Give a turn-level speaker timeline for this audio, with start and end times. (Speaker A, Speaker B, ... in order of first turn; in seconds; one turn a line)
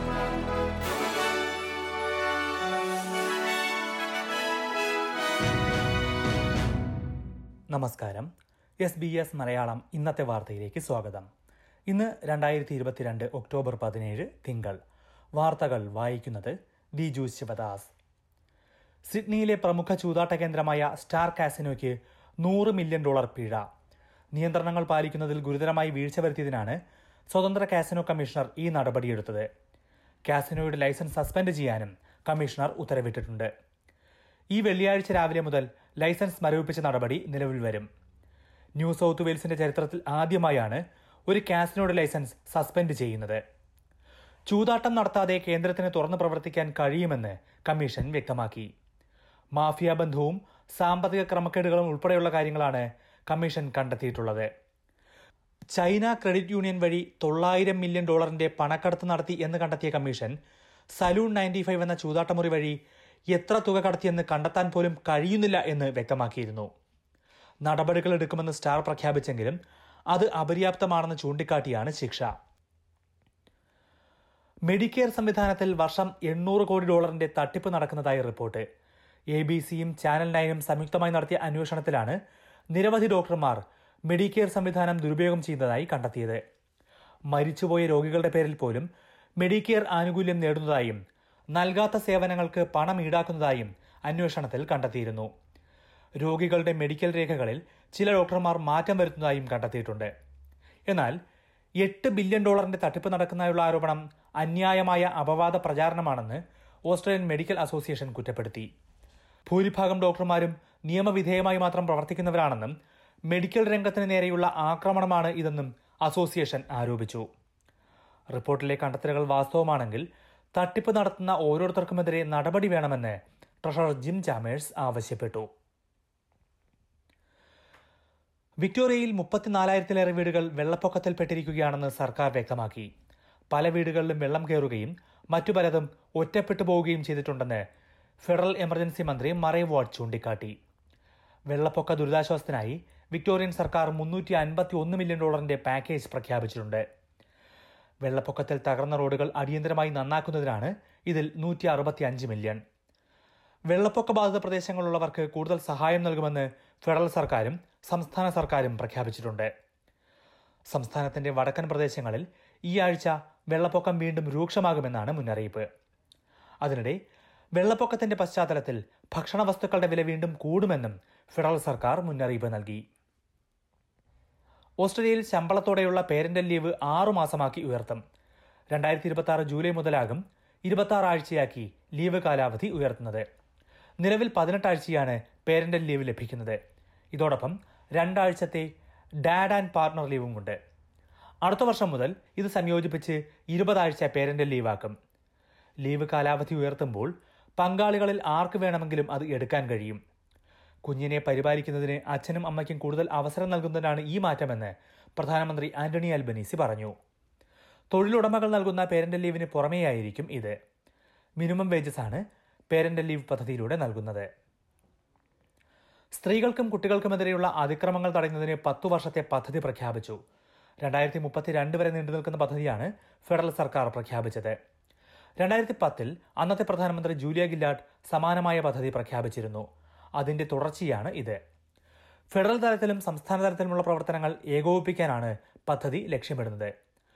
Speaker A: 7.7-8.3
Speaker A: 8.8-11.2
Speaker A: 11.9-14.8
Speaker A: 15.4-17.9
Speaker A: 19.1-23.6
Speaker A: 24.3-26.8
Speaker A: 27.3-29.5
Speaker A: 30.3-33.5
Speaker A: 34.5-37.9
Speaker A: 38.8-43.4
Speaker A: 44.5-48.7
Speaker A: 49.5-54.5
Speaker A: 55.7-60.3
Speaker A: 61.0-62.8
Speaker A: 63.3-66.7
Speaker A: 67.6-69.6
Speaker A: 70.1-72.3
Speaker A: 74.7-78.6
Speaker A: 79.3-82.2
Speaker A: 82.7-86.4
Speaker A: 87.3-88.9
Speaker A: 89.4-91.0
Speaker A: 91.5-95.3
Speaker A: 96.2-100.1
Speaker A: 100.9-101.2
Speaker A: 101.8-108.7
Speaker A: 109.5-112.7
Speaker A: 113.3-117.2
Speaker A: 118.3-120.0
Speaker A: 120.5-125.5
Speaker A: 128.6-132.9
Speaker A: 133.5-137.6
Speaker A: 138.2-140.5
Speaker A: 141.5-146.8
Speaker A: 148.0-152.6
Speaker A: 153.7-159.5
Speaker A: 160.7-165.7
Speaker A: 166.6-167.0
Speaker A: 167.6-172.8
Speaker A: 174.8-178.0
Speaker A: 178.7-183.2
Speaker A: 184.0-186.6
Speaker A: 187.1-188.7
Speaker A: 189.2-190.6
Speaker A: 191.4-194.9
Speaker A: 195.8-200.0
Speaker A: 200.8-206.9
Speaker A: 207.9-210.5
Speaker A: 211.4-214.3
Speaker A: 216.2-220.2
Speaker A: 220.8-224.5
Speaker A: 225.4-229.6
Speaker A: 230.2-231.4
Speaker A: 232.3-236.7